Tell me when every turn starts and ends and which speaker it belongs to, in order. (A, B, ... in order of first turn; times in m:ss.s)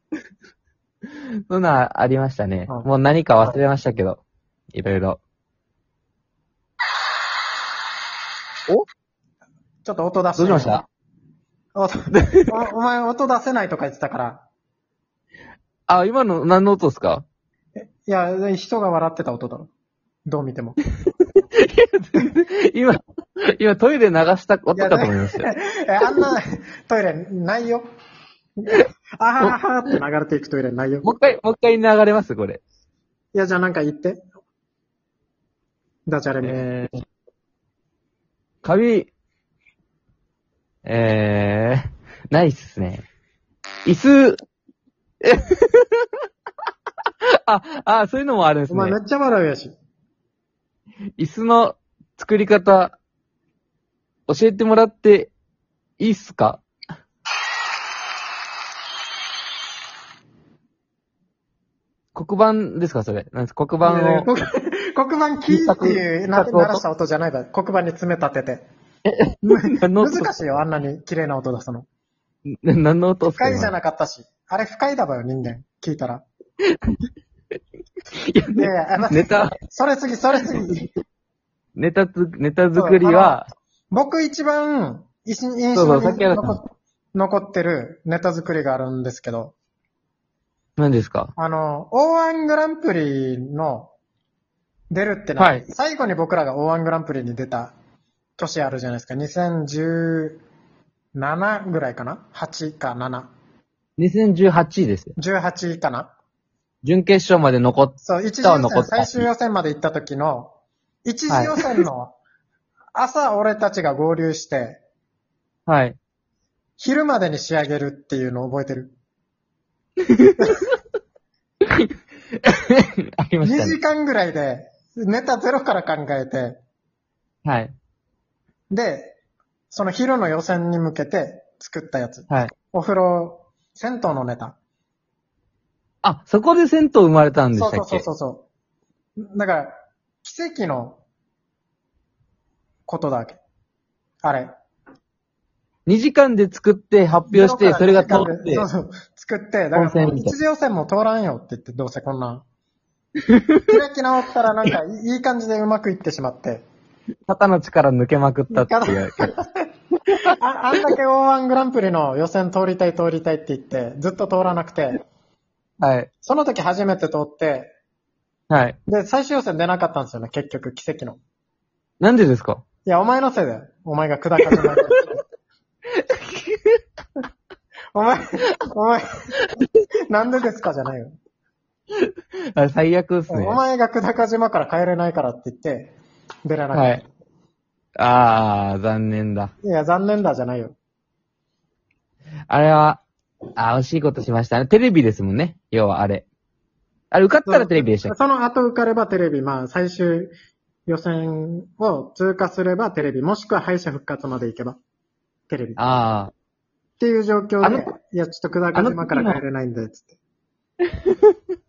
0:01.5-0:04.2 A
0:04.7-0:05.2 A
0:09.8-0:10.8 B
0:10.4-0:10.8 A
0:11.8-0:14.4 B
0:12.1-0:12.5 A
0:15.9-0:17.2 A
0:17.8-0:19.7 B
0:20.2-0:20.8 B
0:21.3-0:23.0 A
0:23.6-0:25.5 A
0:24.7-0:27.8 B
0:28.6-0:31.1 B
0:31.0-0:32.6 A
0:33.3-0:34.2 B
0:36.1-0:37.0 B
0:36.4-0:36.9 A
0:38.6-0:39.1 A
0:40.8-0:43.0 A
0:43.8-0:44.4 A
0:45.2-0:46.0 A
0:47.4-0:49.0 A
0:48.7-0:49.7 B
0:51.2-0:53.0 A
0:54.3-0:55.3 A
0:56.0-0:56.6 A
1:02.1-1:04.3 A
1:03.8-1:08.6 B
1:05.5-1:06.8 A
1:09.0-1:10.4 A
1:09.4-1:11.8 B
1:12.4-1:13.7 A
1:13.3-1:16.2 B
1:18.3-1:19.5 A
1:18.6-1:20.9 B
1:20.6-1:20.8 A
1:21.8-1:23.4 A
1:22.8-1:29.5 B
1:25.7-1:26.6 A
1:30.8-1:31.3 A
1:31.4-1:33.9 B
1:34.9-1:37.7 B
1:35.4-1:35.6 A
1:38.4-1:40.4 B
1:41.1-1:43.3 B
1:44.0-1:45.1 A
1:45.2-1:46.1 B
1:46.8-1:49.3 A
1:48.0-1:50.5 B
1:51.0-1:52.2 B
1:51.3-1:51.8 A
1:52.9-1:54.8 B
1:55.7-1:56.0 A
1:56.8-1:58.9 B
2:00.1-2:00.4 A
2:00.4-2:00.6 B
2:02.4-2:03.8 A
2:03.4-2:06.6 B
2:07.4-2:07.7 A
2:08.7-2:09.1 B
2:09.7-2:14.6 B
2:16.0-2:18.0 A
2:17.5-2:18.4 B
2:19.2-2:21.0 B
2:22.9-2:23.4 B
2:24.2-2:24.5 B
2:25.8-2:28.7 A
2:27.3-2:32.4 B
2:29.8-2:30.3 A
2:33.3-2:33.7 A
2:33.7-2:36.6 B
2:37.3-2:39.3 A
2:38.5-2:45.0 B
2:45.8-2:46.1 A
2:46.2-2:47.7 B
2:48.5-2:48.8 A
2:48.9-2:51.2 B
2:52.0-2:52.6 A
2:52.8-2:55.2 B
2:54.5-2:55.0 A
2:55.9-2:56.8 A
2:57.9-2:59.2 B
2:59.4-2:59.8 A
3:00.1-3:01.2 B
3:02.0-3:03.6 A
3:03.3-3:05.9 B
3:06.4-3:07.0 B
3:06.7-3:07.0 A
3:08.0-3:09.5 A
3:09.6-3:10.7 B
3:12.5-3:13.0 A
3:13.6-3:16.2 A
3:17.1-3:18.1 A
3:17.5-3:20.3 B
3:20.9-3:24.8 B
3:25.5-3:25.8 B
3:25.8-3:26.3 A
3:27.0-3:30.2 B
3:27.6-3:27.9 A
3:28.7-3:29.4 A
3:31.0-3:31.3 A